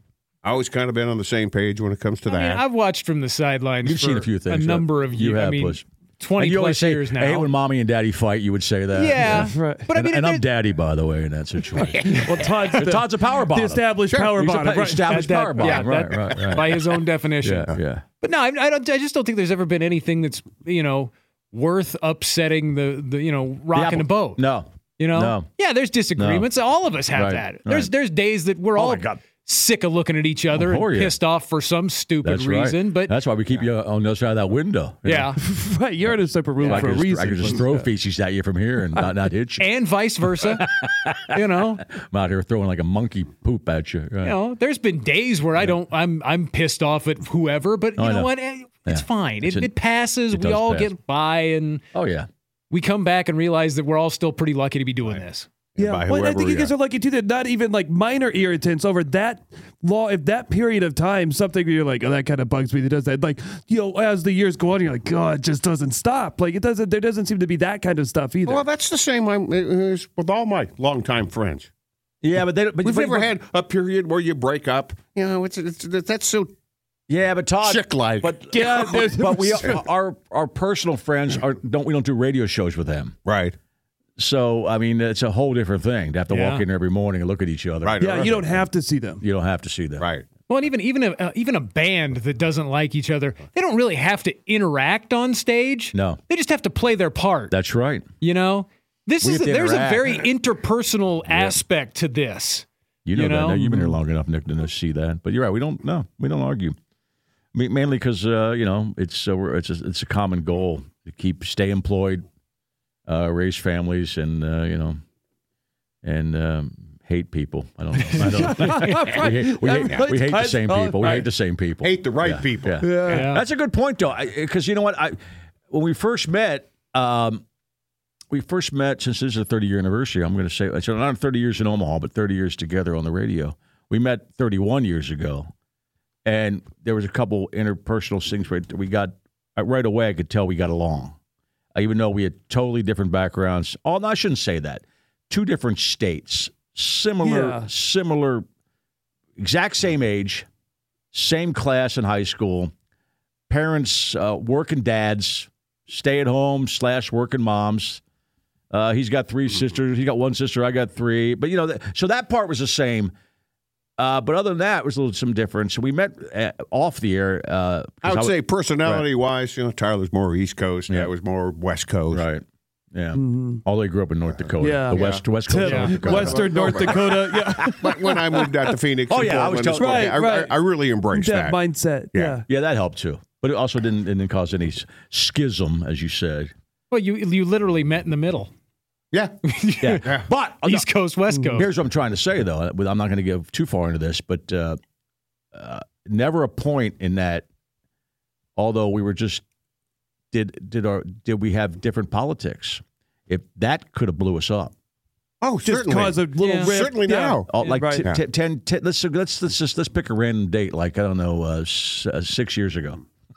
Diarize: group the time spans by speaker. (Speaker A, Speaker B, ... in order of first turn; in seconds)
Speaker A: 0.4-2.6, 14.1-14.4, 55.8-56.7, 68.4-71.7, 72.8-76.5, 77.6-78.8, 83.2-83.5, 87.8-88.5, 90.0-90.2, 121.8-122.8, 168.0-172.2, 174.9-175.2, 175.9-177.2, 177.8-181.6, 182.1-182.4, 189.1-189.4, 205.4-208.2
Speaker B: 2.3-7.5, 8.9-10.5, 15.1-24.4, 25.0-33.1, 35.0-35.4, 36.6-36.9, 39.6-40.6, 41.3-41.9, 44.2-51.8, 52.7-55.5, 86.3-86.7, 90.5-97.5, 98.2-103.7, 123.1-123.4, 175.6-175.9, 186.9-188.5, 189.4-190.1, 190.6-191.7, 206.4-206.7
Speaker C: 3.8-16.8, 17.4-18.0, 23.7-25.5, 26.1-26.5, 27.1-27.9, 28.8-29.2, 30.5-31.1, 32.2-35.3, 36.6-39.7, 40.4-44.4, 48.0-48.3, 48.9-49.7, 50.3-50.9, 51.9-52.3, 72.2-73.3, 77.1-83.1, 84.2-88.5, 89.2-90.1, 95.9-96.2, 97.5-98.1, 99.2-100.3, 101.3-101.6, 103.0-106.8, 107.5-112.2, 113.1-115.0, 116.0-127.4, 128.3-135.5, 136.2-141.2, 141.8-148.4, 149.4-150.5, 151.1-152.7, 153.5-158.0, 158.7-163.1, 164.0-168.3, 172.1-177.9, 179.1-180.2, 182.5-186.5, 189.8-190.9, 191.6-194.8, 195.5-197.4, 198.6-199.4, 200.3-204.7, 207.5-213.0
Speaker D: 9.3-9.9, 11.8-15.9, 35.4-37.9, 55.8-68.6, 78.5-79.8, 88.0-89.2, 118.1-121.3, 122.8-123.3, 147.2-147.7, 173.1-173.6, 174.6-178.4, 179.7-180.6, 181.1-182.4, 205.6-208.1